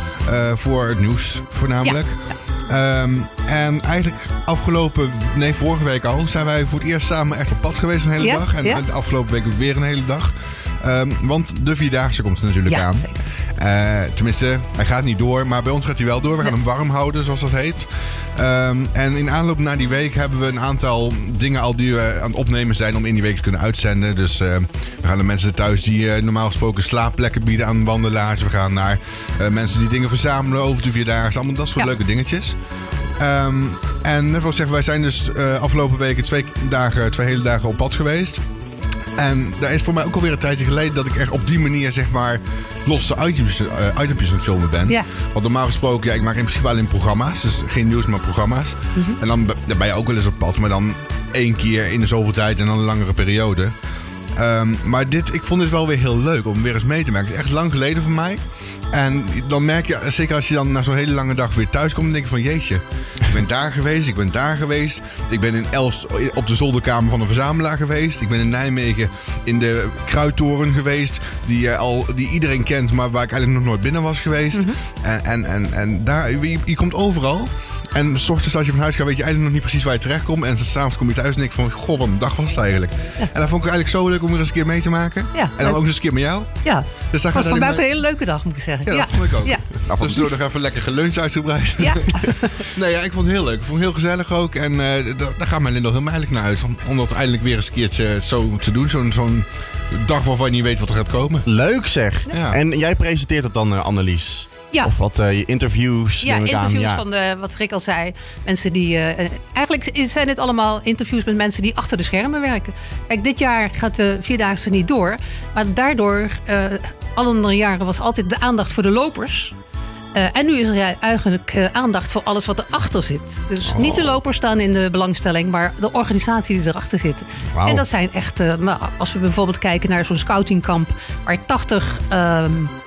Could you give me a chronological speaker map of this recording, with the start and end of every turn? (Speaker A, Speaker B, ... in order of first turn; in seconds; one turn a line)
Speaker A: 0.2-32.6
Speaker B: 1.8-2.3
Speaker B: 8.2-8.8
Speaker B: 12.7-13.2
Speaker A: 33.2-38.4
Speaker A: 39.2-53.8
Speaker A: 54.4-86.5
Speaker B: 85.3-85.8
Speaker B: 86.6-89.7
Speaker A: 87.1-87.8
Speaker A: 88.8-101.5
Speaker C: 89.9-90.3
Speaker B: 91.8-92.6
Speaker C: 101.5-107.0
Speaker A: 102.3-102.6
Speaker B: 106.2-119.5
Speaker B: 120.2-132.7
Speaker C: 123.6-124.2
Speaker C: 127.5-127.8